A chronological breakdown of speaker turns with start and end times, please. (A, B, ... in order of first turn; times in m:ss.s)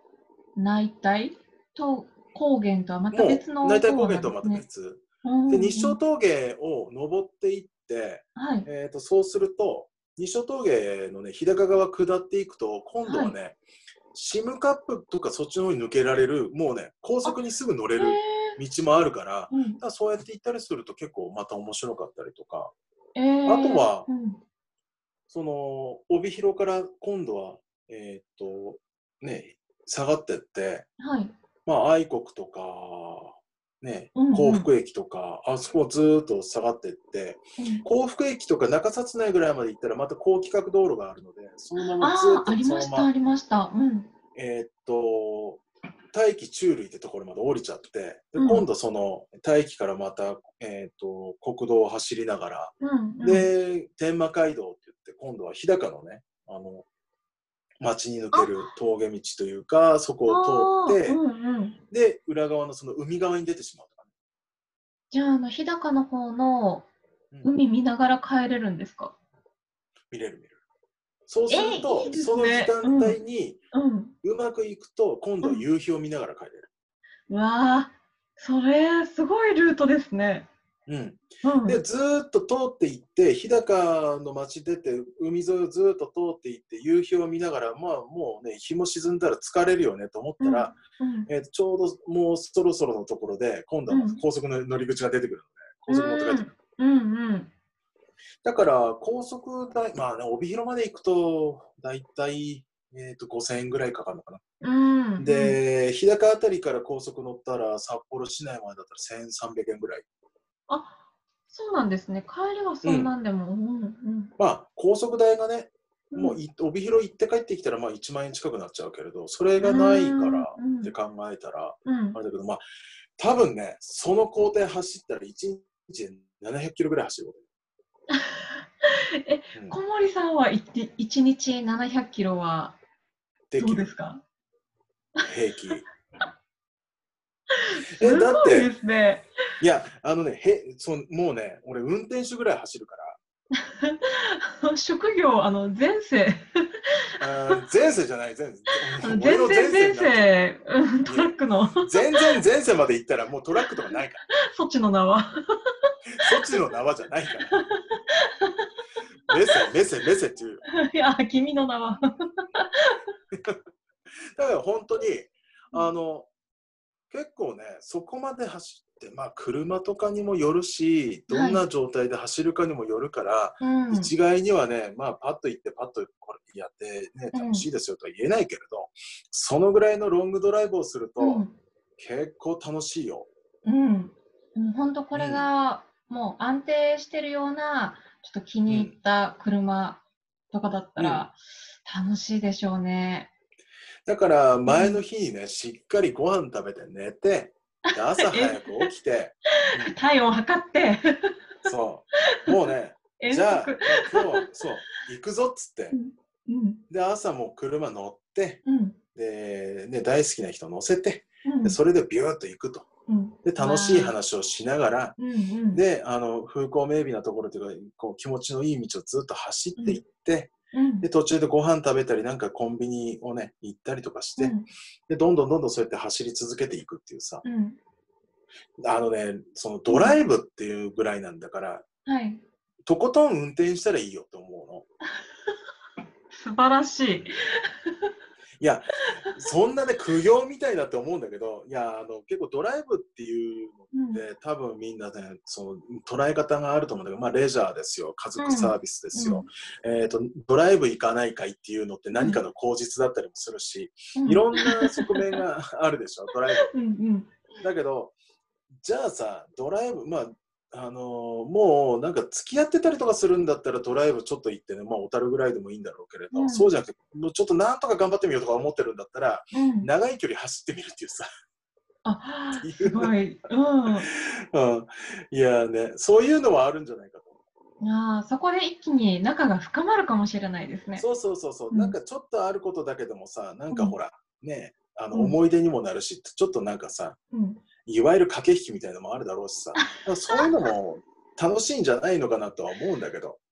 0:00.6-0:04.6 A
0:03.1-0:13.6 B
0:05.2-0:06.0 A
0:08.4-0:08.7 A
0:13.0-0:13.3 A
0:14.1-0:22.7 B
0:18.0-0:18.6 A
0:19.5-0:19.8 A
0:23.1-0:24.4 A
0:23.4-0:24.1 B
0:25.3-0:30.9 B
0:31.0-0:31.3 A
0:31.6-0:43.1 B
0:34.1-0:34.7 A
0:37.6-0:37.8 A
0:41.8-0:44.1 A
0:44.3-0:56.8 B
0:48.4-0:48.6 A
0:52.8-0:53.5 A
0:57.8-1:01.2 B
0:58.3-0:58.6 A
1:00.3-1:01.8 A
1:01.9-1:04.0 B
1:05.1-1:06.9 A
1:07.4-1:09.1 A
1:10.1-1:10.6 B
1:11.3-1:13.6 B
1:11.5-1:13.2 A
1:13.7-1:14.1 A
1:14.2-1:16.7 B
1:17.3-1:20.5 A
1:20.9-1:36.4 B
1:21.4-1:21.8 A
1:30.4-1:31.3 A
1:33.9-1:34.2 A
1:35.9-1:37.5 A
1:38.4-1:44.4 B
1:44.6-1:45.6 A
1:45.2-1:50.0 B
1:50.7-1:51.0 A
1:51.5-1:54.3 A
1:52.8-1:53.1 B
1:54.4-2:02.6 B
1:56.1-1:56.4 A
1:59.6-2:00.9 A
2:01.8-2:02.2 A
2:03.2-2:07.4 B
2:08.1-2:12.8 A
2:13.5-2:13.9 B
2:13.6-2:14.2 A
2:15.2-2:15.8 A
2:15.2-2:15.9 B
2:17.5-2:19.3 A
2:17.9-2:18.7 B
2:19.6-2:23.2 B
2:23.6-2:26.8 A
2:27.2-2:30.3 B
2:29.0-2:32.2 A
2:31.0-2:34.2 B
2:34.4-2:35.7 A
2:36.2-2:37.6 B
2:36.2-2:36.6 A
2:37.5-2:38.7 A
2:39.3-2:40.6 B
2:40.7-2:43.0 A
2:43.3-2:43.6 B
2:44.4-2:46.3 B
2:47.1-3:01.4 B
2:51.3-2:51.6 A
2:53.6-2:54.1 A
2:57.3-2:57.7 A
3:01.2-3:01.5 A
3:02.0-3:03.3 B
3:03.6-3:13.3 A
3:05.1-3:05.5 B
3:08.7-3:08.9 B
3:11.0-3:11.3 B
3:14.0-3:20.0 B
3:14.6-3:15.0 A
3:17.9-3:18.9 A
3:19.6-3:21.4 A
3:21.6-3:26.0 B
3:23.2-3:24.5 A
3:25.9-3:26.8 A
3:26.9-3:28.6 B
3:28.6-3:29.0 A
3:29.1-3:32.9 B
3:31.4-3:31.8 A
3:33.1-3:34.2 A
3:33.4-3:35.2 B
3:35.2-3:35.8 A
3:35.7-3:44.5 B
3:40.7-3:41.1 A
3:44.4-3:44.7 A
3:45.1-3:47.4 B
3:47.4-3:47.8 A
3:48.8-3:51.8 B
3:49.9-3:50.2 A
3:52.0-3:52.4 A
3:52.8-3:54.8 B
3:56.3-3:57.3 A
3:58.6-4:16.7 B
4:03.9-4:04.2 A
4:08.4-4:09.5 A
4:12.1-4:12.4 A
4:14.2-4:15.4 A
4:16.7-4:17.3 A
4:17.6-4:18.1 B
4:18.8-4:31.3 B
4:26.3-4:26.7 A
4:29.5-4:29.9 A
4:32.0-4:34.1 A
4:32.6-4:33.1 B
4:34.0-4:37.4 B
4:37.8-4:41.0 A
4:41.0-4:47.2 B
4:41.7-4:42.0 A
4:43.7-4:44.0 A
4:45.1-4:45.4 A
4:47.3-4:47.6 A
4:47.8-4:53.4 B
4:49.8-4:50.5 A